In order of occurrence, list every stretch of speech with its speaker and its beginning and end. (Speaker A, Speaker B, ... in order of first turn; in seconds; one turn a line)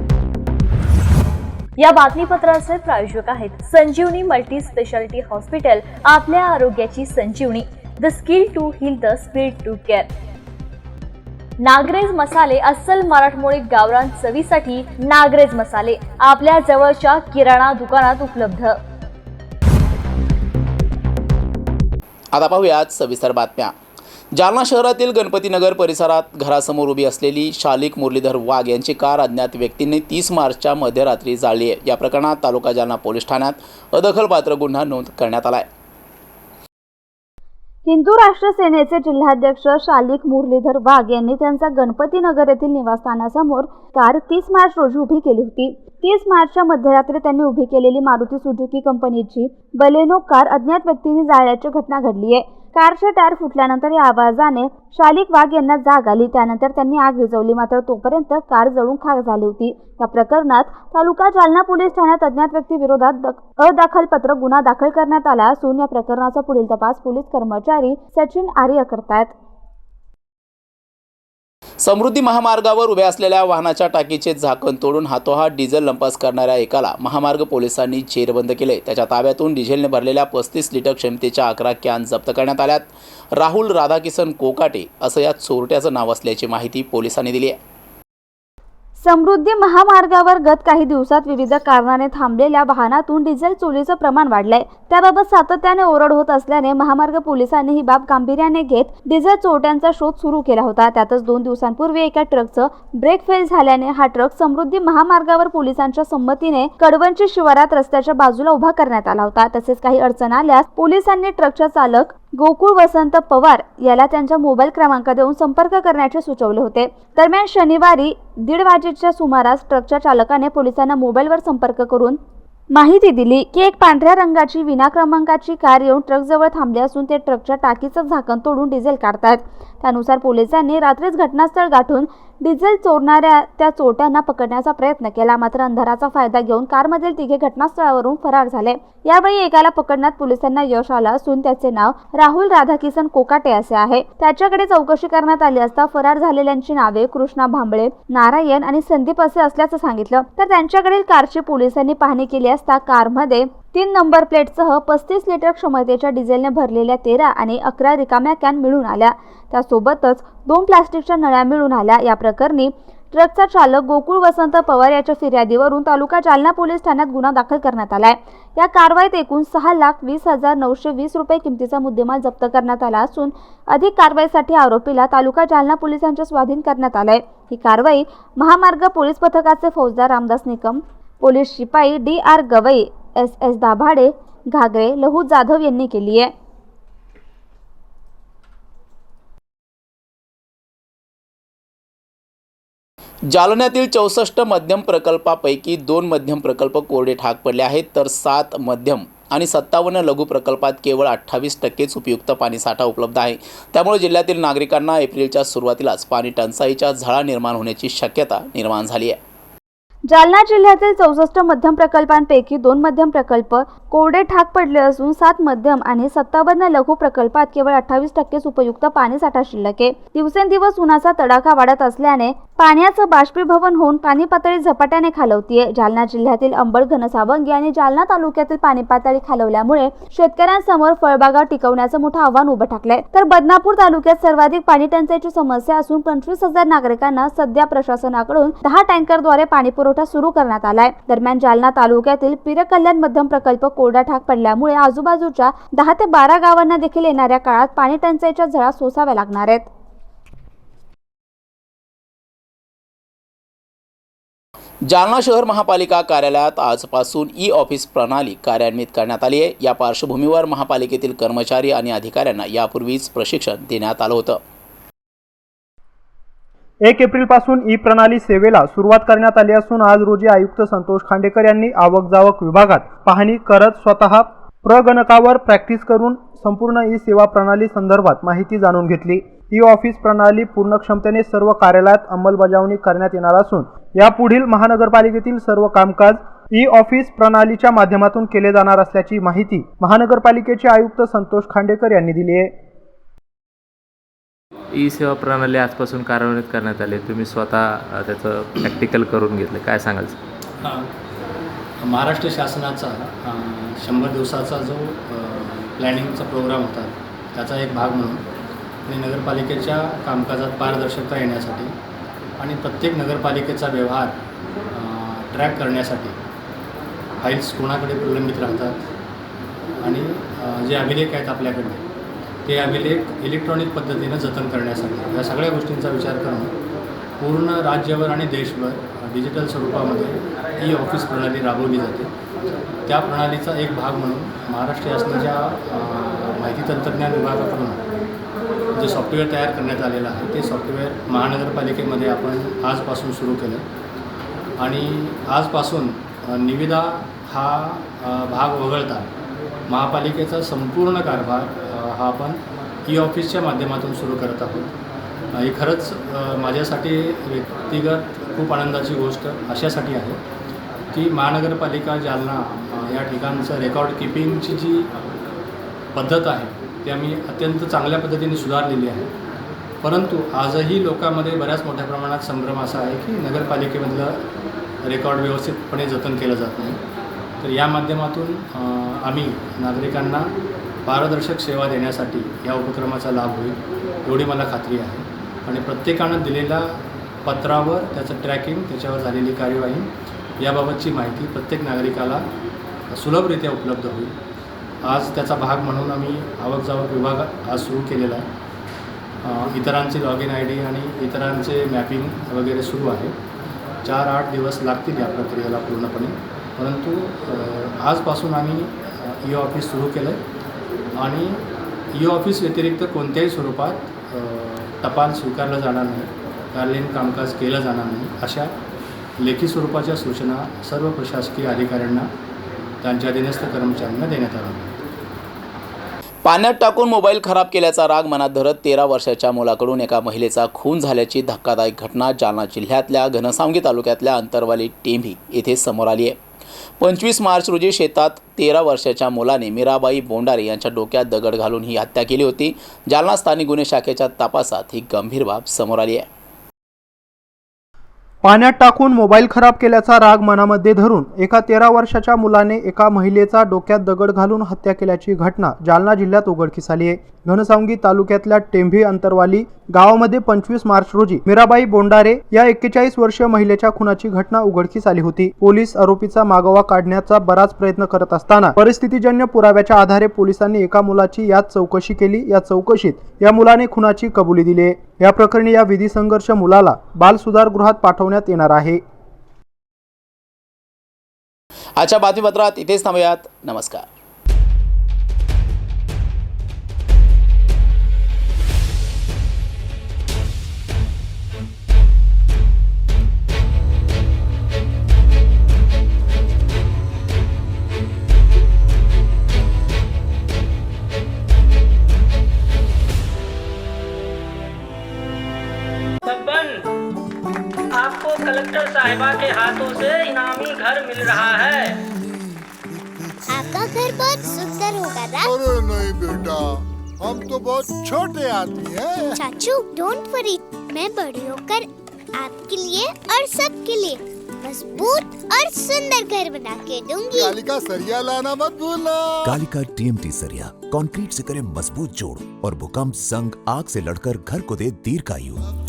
Speaker A: 1.8-10.1
Speaker A: 11.6-18.8
Speaker B: 22.3-23.7
Speaker B: 24.4-35.7
Speaker C: 37.9-69.3
Speaker B: 71.8-87.6
Speaker C: 89.0-122.2
Speaker C: 122.7-186.3
Speaker B: 193.3-209.2
Speaker C: 210.1-249.7
Speaker B: 254.9-264.4
Speaker D: 266.9-292.5
Speaker E: 294.7-300.2
Speaker F: 301.8-308.2
Speaker F: 308.9-311.8
Speaker F: 312.4-314.2
Speaker F: 314.7-316.2
Speaker F: 317.2-318.8
Speaker F: 319.8-321.9
Speaker F: 322.5-326.5
Speaker F: 327.2-332.1
Speaker F: 332.9-337.8
Speaker F: 338.7-343.7
Speaker F: 344.6-349.1
Speaker F: 349.7-354.7
Speaker F: 355.3-360.2
Speaker F: 360.9-364.9
Speaker F: 365.9-369.1
Speaker F: 369.8-374.2
Speaker F: 374.8-376.8
Speaker F: 377.4-380.3
Speaker F: 380.9-392.3
Speaker F: 392.9-394.1
Speaker F: 394.8-398.3
Speaker F: 399.2-403.2
Speaker F: 403.8-410.2
Speaker F: 411.0-411.4
Speaker F: 411.9-418.6
Speaker F: 419.2-422.1
Speaker F: 422.8-424.7
Speaker B: 426.2-436.2
Speaker B: 436.8-446.1
Speaker D: 448.2-478.8
Speaker B: 481.8-483.9
Speaker G: 506.1-506.5
Speaker G: 507.8-511.6
Speaker H: 513.2-514.5
Speaker I: 513.3-515.3
Speaker H: 515.2-519.3
Speaker I: 519.2-527.3
Speaker H: 527.1-529.4
Speaker J: 529.5-535.4